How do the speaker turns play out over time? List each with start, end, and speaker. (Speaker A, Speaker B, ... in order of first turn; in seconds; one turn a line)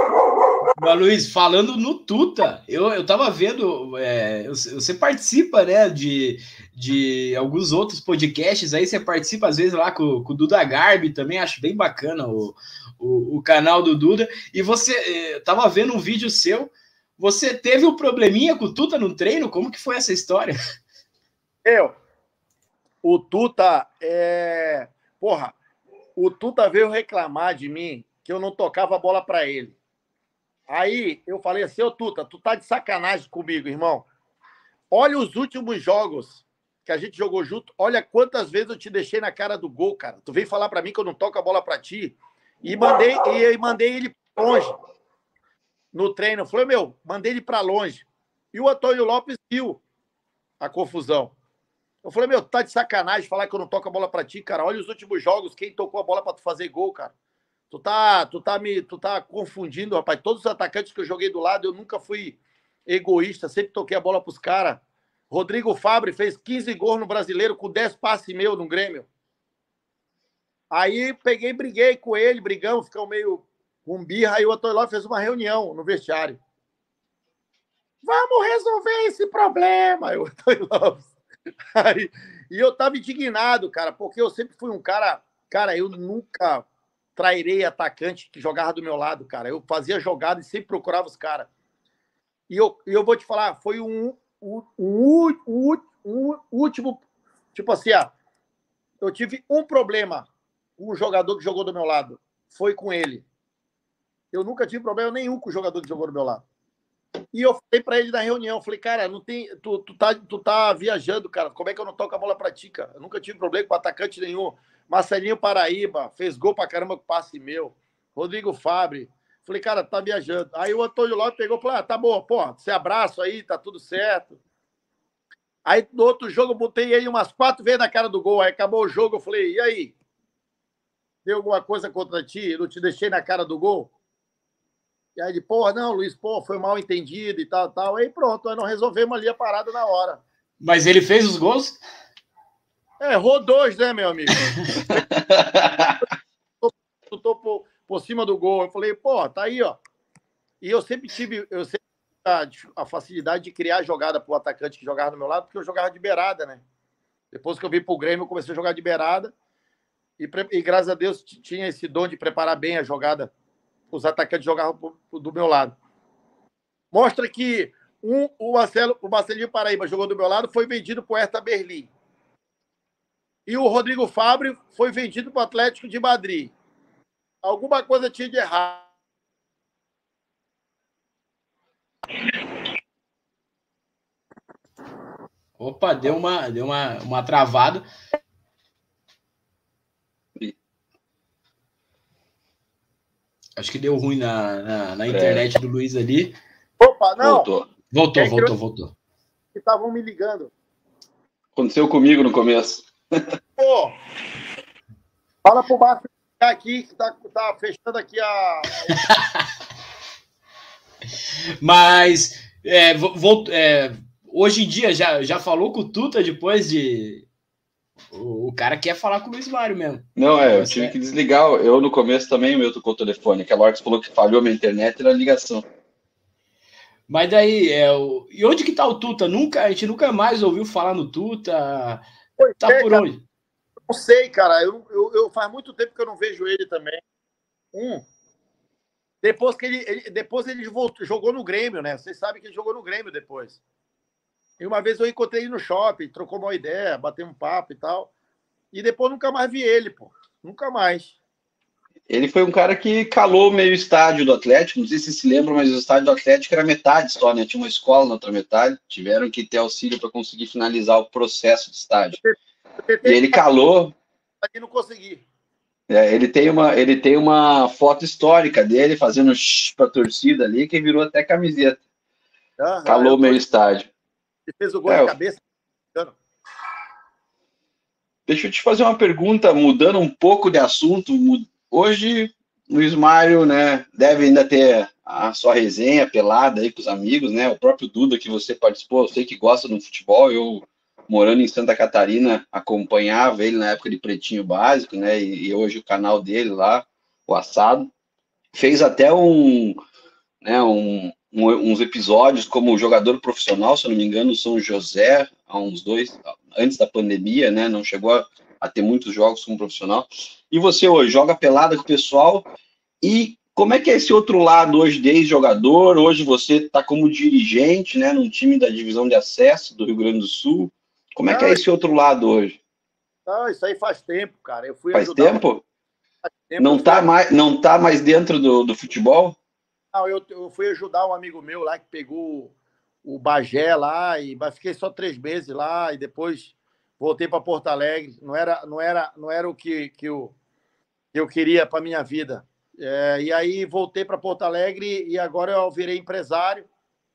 Speaker A: 0.8-20.6
Speaker B: 21.6-21.9
Speaker B: 23.0-25.6
Speaker B: 26.2-29.8
Speaker B: 30.7-34.1
Speaker B: 34.9-44.8
Speaker B: 45.9-49.8
Speaker B: 50.6-51.4
Speaker B: 52.0-57.1
Speaker B: 57.7-69.1
Speaker B: 70.7-76.4
Speaker B: 78.0-81.1
Speaker B: 81.8-91.5
Speaker B: 92.5-97.0
Speaker B: 97.5-98.1
Speaker B: 99.0-103.2
Speaker B: 104.3-106.4
Speaker B: 107.3-124.4
Speaker B: 125.7-129.9
Speaker B: 131.2-133.9
Speaker B: 135.2-140.2
Speaker A: 140.6-141.8
Speaker B: 143.0-144.5
Speaker C: 145.3-146.0
Speaker B: 146.6-149.8
Speaker B: 150.6-156.6
Speaker B: 157.3-159.3
Speaker B: 160.2-163.3
Speaker B: 163.9-165.8
Speaker B: 166.9-171.9
Speaker B: 173.5-176.6
Speaker B: 177.4-178.9
Speaker A: 185.6-187.9
Speaker A: 193.6-196.3
Speaker C: 195.1-195.5
Speaker B: 196.8-197.5
Speaker C: 197.2-197.7
Speaker A: 197.9-198.9
Speaker B: 198.2-198.5
Speaker B: 199.5-200.5
Speaker C: 201.6-203.2
Speaker B: 203.6-203.9
Speaker B: 205.4-208.9
Speaker A: 209.0-209.4
Speaker A: 211.6-217.3
Speaker A: 218.1-220.9
Speaker C: 220.2-225.6
Speaker A: 227.1-232.0
Speaker B: 232.4-233.0
Speaker A: 232.6-233.2
Speaker B: 233.9-237.0
Speaker B: 237.7-238.1
Speaker B: 239.2-243.6
Speaker B: 244.6-248.1
Speaker B: 248.7-251.2
Speaker C: 252.1-262.2
Speaker B: 262.2-263.4
Speaker C: 263.0-263.9
Speaker B: 264.4-265.2
Speaker C: 265.9-271.8
Speaker B: 272.6-273.4
Speaker C: 272.9-273.9
Speaker B: 274.5-276.2
Speaker C: 274.9-275.1
Speaker C: 278.3-297.9
Speaker C: 298.5-299.8
Speaker C: 300.4-312.5
Speaker C: 313.0-322.6
Speaker B: 321.3-321.6
Speaker B: 323.3-325.5
Speaker C: 324.9-325.6
Speaker B: 326.2-327.1
Speaker C: 326.6-329.4
Speaker B: 329.9-332.5
Speaker B: 333.1-340.3
Speaker B: 341.1-346.7